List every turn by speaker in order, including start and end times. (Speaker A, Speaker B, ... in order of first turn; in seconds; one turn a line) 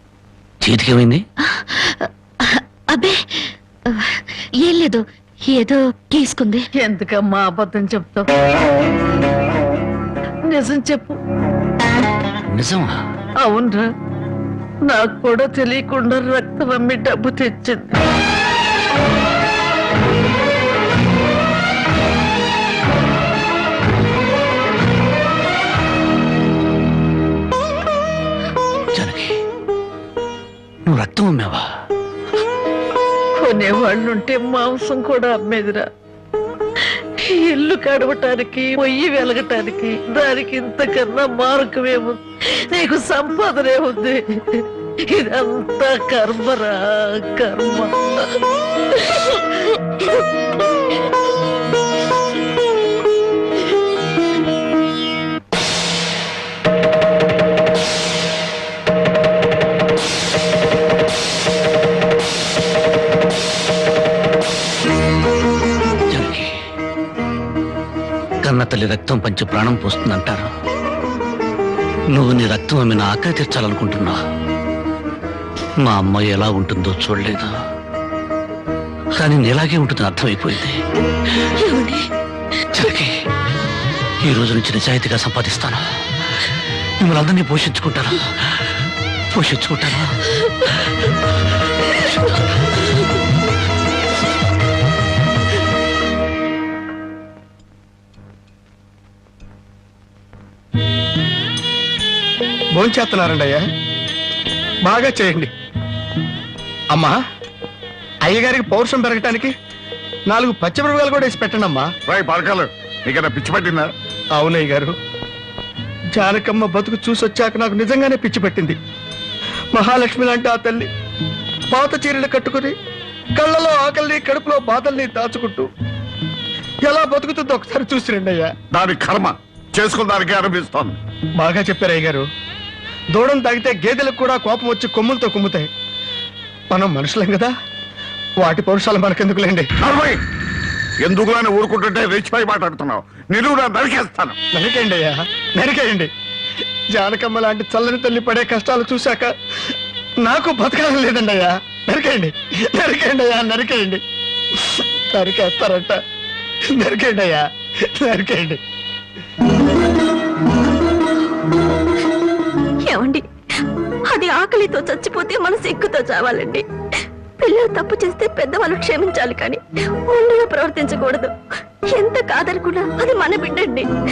Speaker A: 0.6-1.2
Speaker B: 1.5-6.6
Speaker C: 6.8-8.3
Speaker C: 10.5-11.2
Speaker A: 12.5-13.0
Speaker C: 13.4-13.9
Speaker C: 14.9-18.0
Speaker A: 28.9-29.3
Speaker A: 30.9-31.6
Speaker C: 33.4-35.9
Speaker C: 37.2-42.2
Speaker C: 42.7-47.9
Speaker A: 66.1-66.5
Speaker A: 68.4-70.5
Speaker A: 72.1-74.2
Speaker A: 75.8-77.5
Speaker A: 79.1-80.8
Speaker B: 81.6-82.0
Speaker A: 82.7-83.1
Speaker A: 84.2-85.8
Speaker A: 87.0-88.7
Speaker A: 89.3-90.2
Speaker D: 102.8-103.6
Speaker D: 104.8-105.5
Speaker D: 108.3-109.5
Speaker D: 110.3-111.8
Speaker E: 112.1-113.9
Speaker D: 114.3-114.9
Speaker D: 116.2-118.8
Speaker D: 119.7-120.9
Speaker D: 121.7-122.7
Speaker D: 123.4-125.7
Speaker D: 126.9-128.5
Speaker E: 128.7-131.0
Speaker D: 131.4-132.2
Speaker D: 133.1-135.7
Speaker D: 136.7-137.5
Speaker D: 138.4-139.7
Speaker E: 139.8-140.2
Speaker E: 141.0-144.3
Speaker D: 144.5-146.1
Speaker D: 146.9-149.3
Speaker D: 150.2-154.0
Speaker D: 154.7-155.9
Speaker D: 156.7-157.4
Speaker D: 158.0-158.6
Speaker F: 162.8-163.2
Speaker F: 164.1-166.6
Speaker F: 167.4-171.3
Speaker F: 171.9-173.9